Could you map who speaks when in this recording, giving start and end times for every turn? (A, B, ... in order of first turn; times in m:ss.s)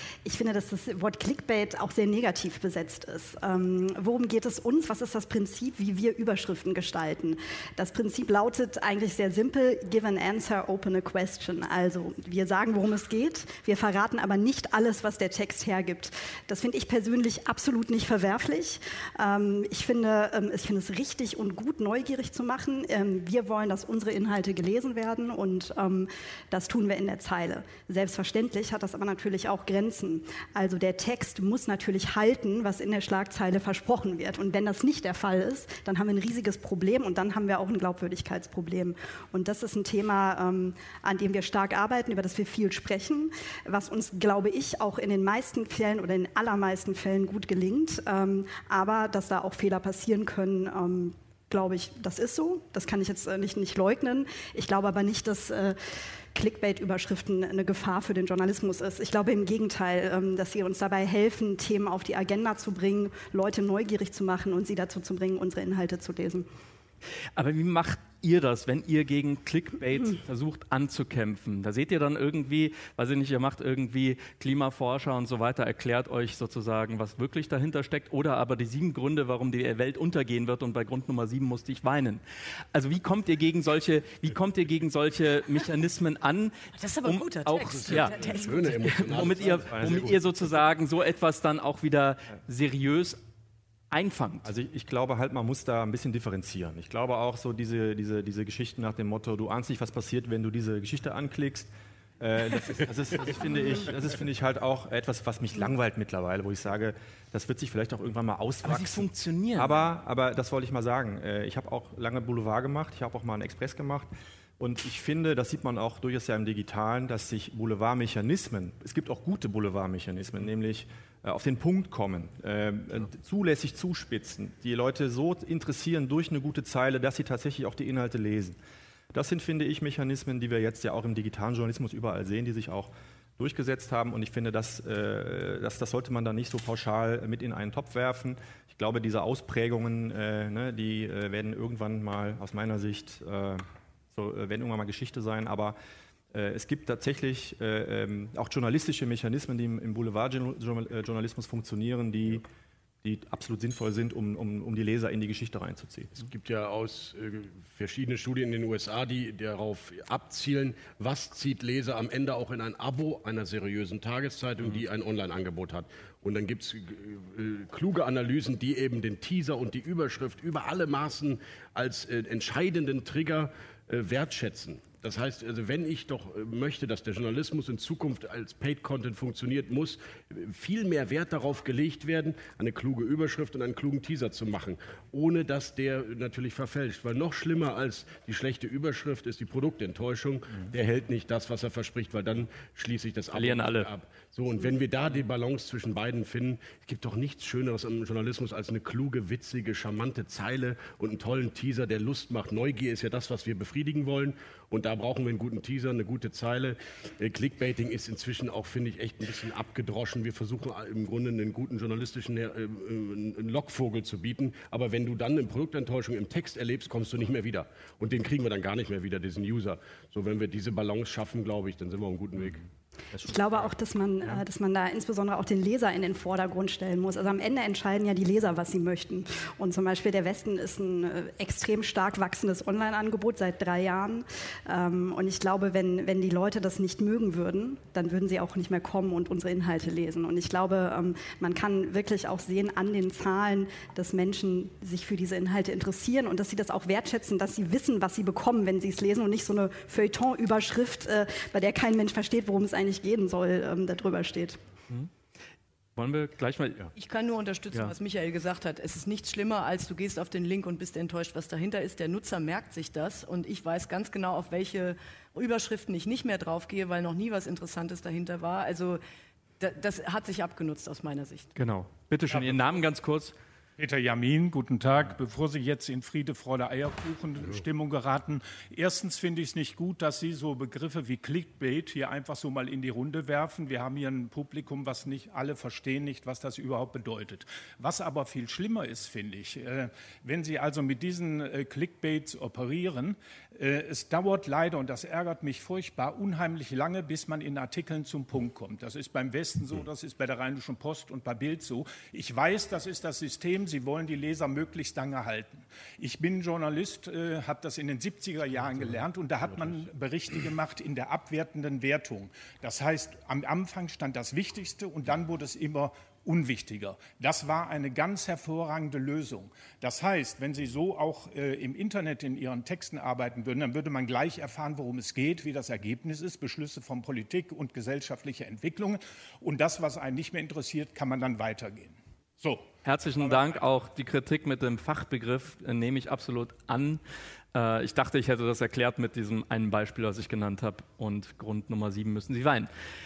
0:00.2-0:55.8 A
0:56.3-1:06.5 A
1:07.4-1:22.2 B
1:22.7-1:33.2 B
1:26.8-1:29.0 C
1:27.9-1:30.2 D
1:29.7-1:30.1 E
1:33.9-1:34.5 B
1:34.4-2:08.6 E
1:48.6-1:49.8 B
2:09.1-2:25.8 E
2:26.3-2:32.4 E
2:33.0-2:36.2 E
2:36.2-3:42.6 D
3:13.3-3:13.9 B
3:43.1-3:43.7 E
3:43.2-4:14.6 A
4:16.0-4:16.9 B
4:17.0-4:29.0 C
4:29.6-4:31.5 C
4:31.6-4:33.4 B
4:32.3-4:32.8 F
4:33.8-5:33.6 F
5:32.8-5:37.0 B
5:37.5-5:42.7 B